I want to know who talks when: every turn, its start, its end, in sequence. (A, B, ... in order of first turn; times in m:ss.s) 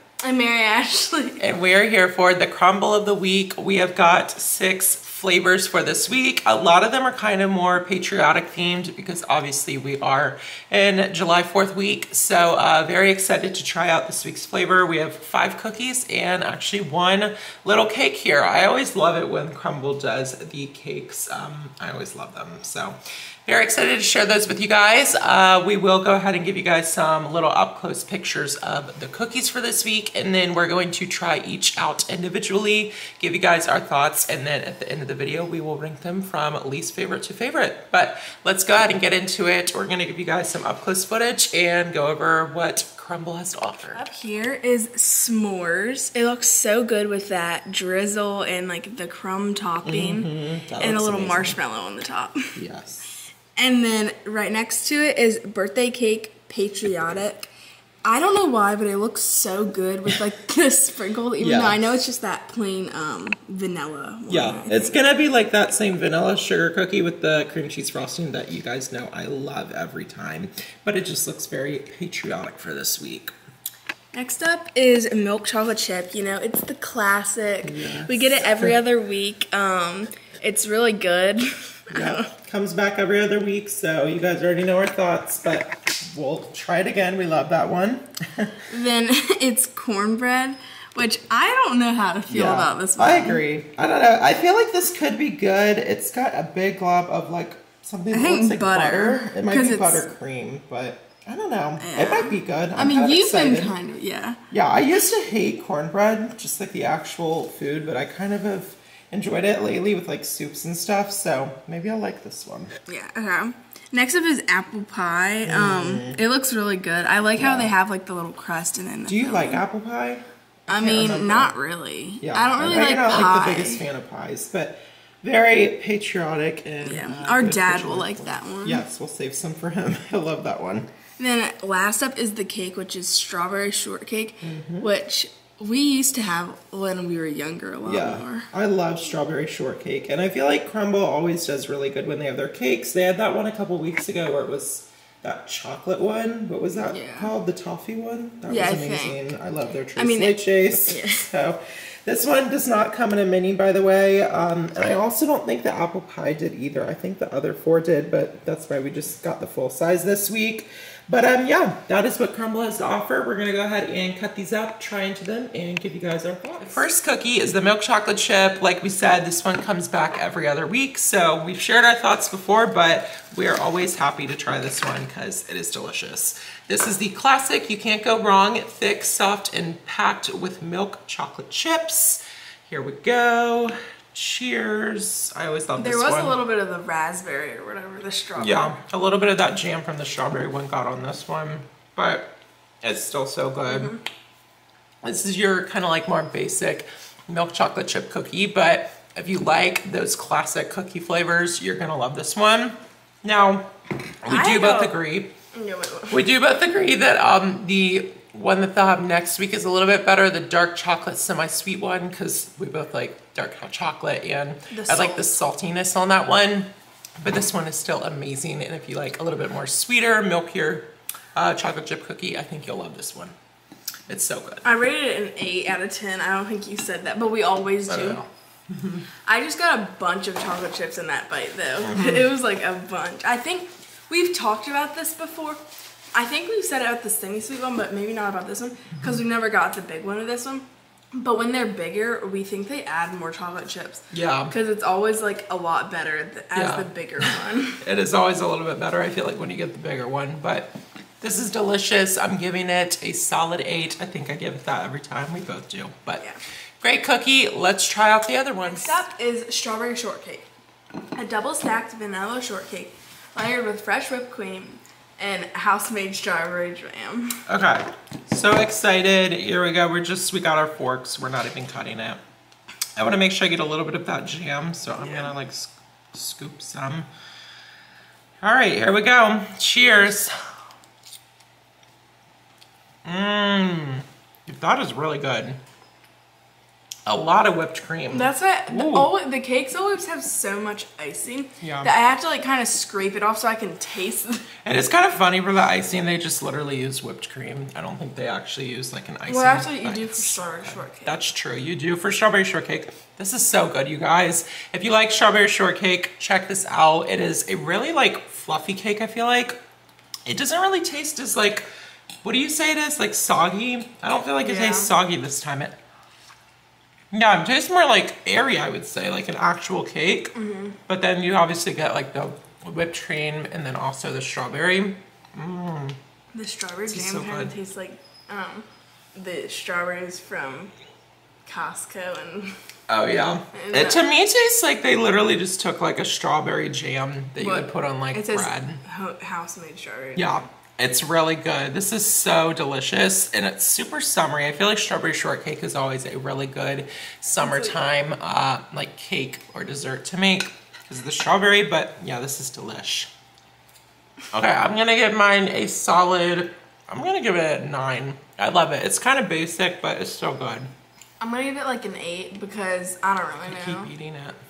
0:00.2-0:01.4 A
0:01.4-0:44.0 B
0:43.9-0:50.3 A
0:49.8-0:51.6 B
0:50.8-0:52.5 A
0:52.6-0:53.1 B
0:53.6-0:57.5 A
0:58.0-1:05.0 A
1:01.4-1:01.8 B
1:04.3-1:13.3 B
1:14.1-1:22.3 A
1:17.6-1:18.8 B
1:21.9-1:28.6 B
1:28.7-1:33.4 A
1:32.3-1:43.8 B
1:38.1-1:40.1 A
1:41.8-1:44.4 A
1:44.5-1:52.7 B
1:52.9-1:59.6 A
1:55.4-1:56.2 B
1:57.4-1:57.7 B
1:59.1-2:01.5 B
2:00.7-2:03.9 A
2:02.2-2:10.9 B
2:06.8-2:08.8 A
2:11.2-2:18.5 A
2:14.4-2:14.9 B
2:17.8-3:06.4 B
2:26.9-2:27.3 A
2:28.5-2:29.3 A
2:30.0-2:31.3 A
3:05.8-3:08.8 A
3:08.4-3:13.9 B
3:13.7-3:14.0 A
3:15.0-3:23.7 B
3:24.2-3:25.3 B
3:24.3-3:26.2 A
3:26.1-3:36.7 B
3:34.7-3:35.4 A
3:37.2-3:43.3 B
3:44.1-3:44.6 B
3:44.6-3:48.2 A
3:47.9-3:49.0 B
3:49.3-3:55.6 A
3:51.8-3:52.3 B
3:56.1-4:07.8 A
4:04.1-4:04.5 B
4:06.6-4:16.2 B
4:16.8-4:19.0 B
4:18.6-4:20.5 A
4:21.2-4:27.4 A
4:27.5-4:32.2 B
4:33.0-4:37.1 B
4:35.0-4:35.3 A
4:38.4-4:40.3 B
4:43.0-4:45.6 B
4:47.1-4:49.1 B
4:48.1-4:54.5 A
4:51.6-4:51.9 B
4:54.6-5:09.6 B
4:59.3-5:01.2 A
5:10.3-5:11.7 B
5:12.2-5:15.8 B
5:14.4-5:14.9 A
5:17.1-5:20.3 B
5:20.3-5:20.8 A
5:20.9-5:26.0 B
5:26.3-5:30.7 A
5:26.9-5:27.5 B
5:31.5-5:32.5 A
5:32.9-5:38.8 B
5:33.5-5:34.1 A
5:37.4-5:40.3 A
5:40.2-5:53.1 B
5:47.4-5:48.0 A
5:54.3-6:00.7 B
6:01.2-6:03.9 A
6:03.5-6:04.4 B